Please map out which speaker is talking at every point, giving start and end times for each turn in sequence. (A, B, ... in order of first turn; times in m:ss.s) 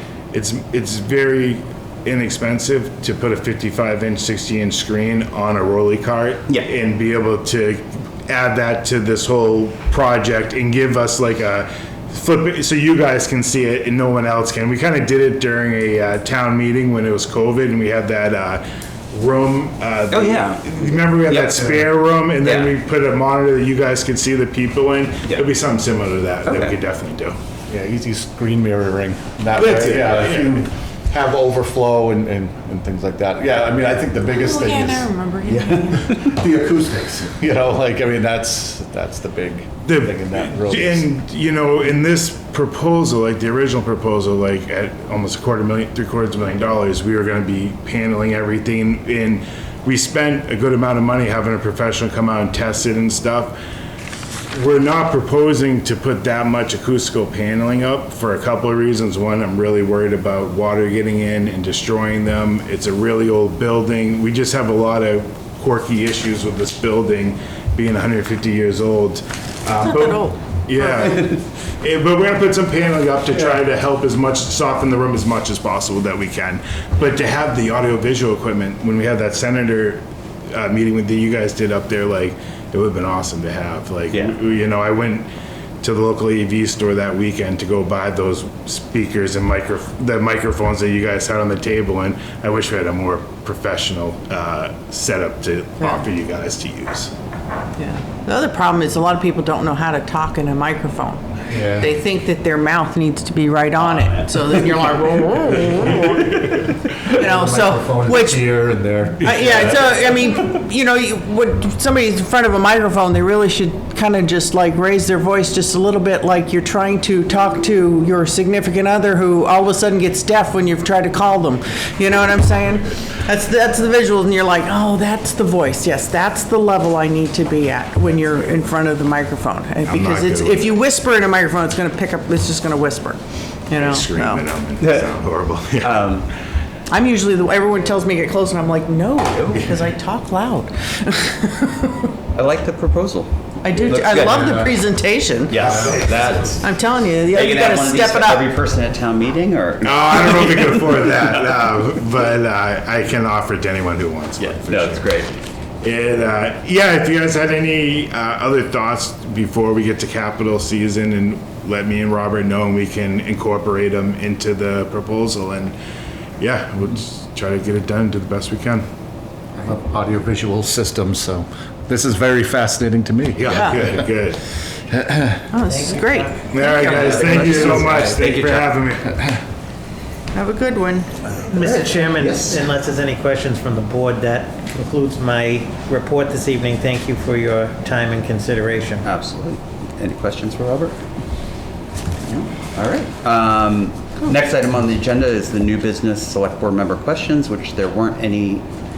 0:00.3-0:27.4 A
0:20.1-0:21.9 B
0:22.4-0:22.7 B
0:26.4-0:26.7 B
0:27.7-0:35.1 C
0:29.5-0:30.6 A
0:34.3-0:36.2 D
0:36.1-0:41.0 C
0:39.8-0:53.6 A
0:54.5-1:25.3 A
1:09.8-1:11.2 D
1:25.8-1:37.1 A
1:37.8-1:46.4 D
1:41.5-1:41.9 C
1:47.0-1:48.5 D
1:47.1-1:50.0 C
1:49.1-2:14.5 D
2:09.9-2:10.7 A
2:13.8-2:16.0 A
2:14.8-2:15.1 B
2:15.8-2:16.3 B
2:16.9-2:22.1 D
2:22.4-2:24.8 B
2:23.6-2:25.9 D
2:24.4-2:24.8 C
2:25.5-2:26.7 B
2:25.6-2:26.4 A
2:25.6-2:26.0 C
2:26.5-2:28.5 D
2:27.3-2:31.6 B
2:29.8-2:35.1 A
2:34.4-2:35.4 B
2:35.8-2:45.8 A
2:46.4-2:48.9 A
2:49.6-2:53.6 C
2:53.4-2:54.4 A
2:53.5-2:53.8 D
2:54.9-2:55.4 C
2:55.5-2:57.2 D
2:55.6-2:58.0 E
2:56.5-2:59.2 A
2:56.9-2:58.7 B
3:00.3-3:01.2 D
3:01.4-3:09.1 E
3:01.6-3:02.6 B
3:09.0-3:11.0 B
3:12.2-3:18.7 B